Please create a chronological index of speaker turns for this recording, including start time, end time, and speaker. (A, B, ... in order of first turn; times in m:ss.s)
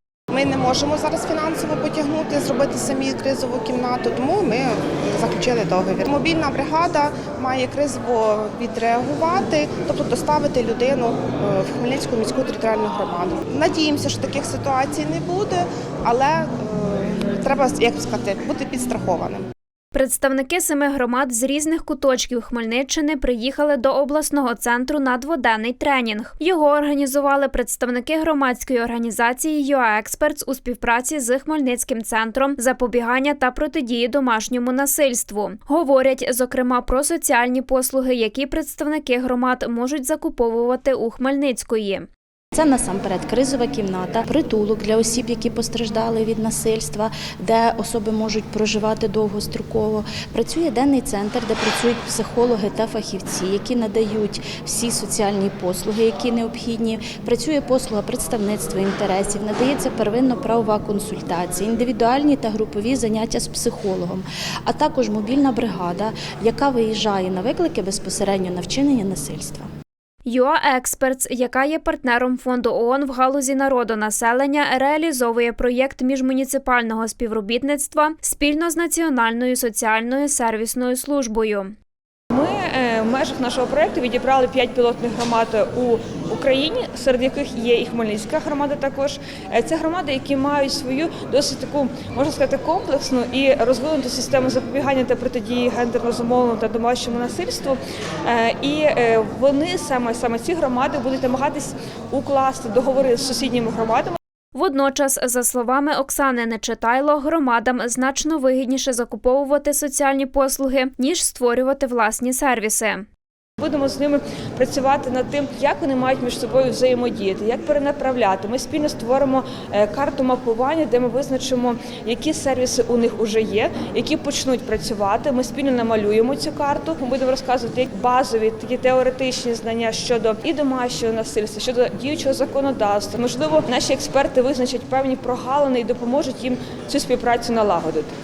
0:00.3-0:19.4 A
0:19.9-0:42.1 B
0:42.5-1:09.7 C
1:10.2-1:21.7 B
1:22.3-1:44.2 D
1:44.5-1:53.0 B
1:53.6-2:18.1 D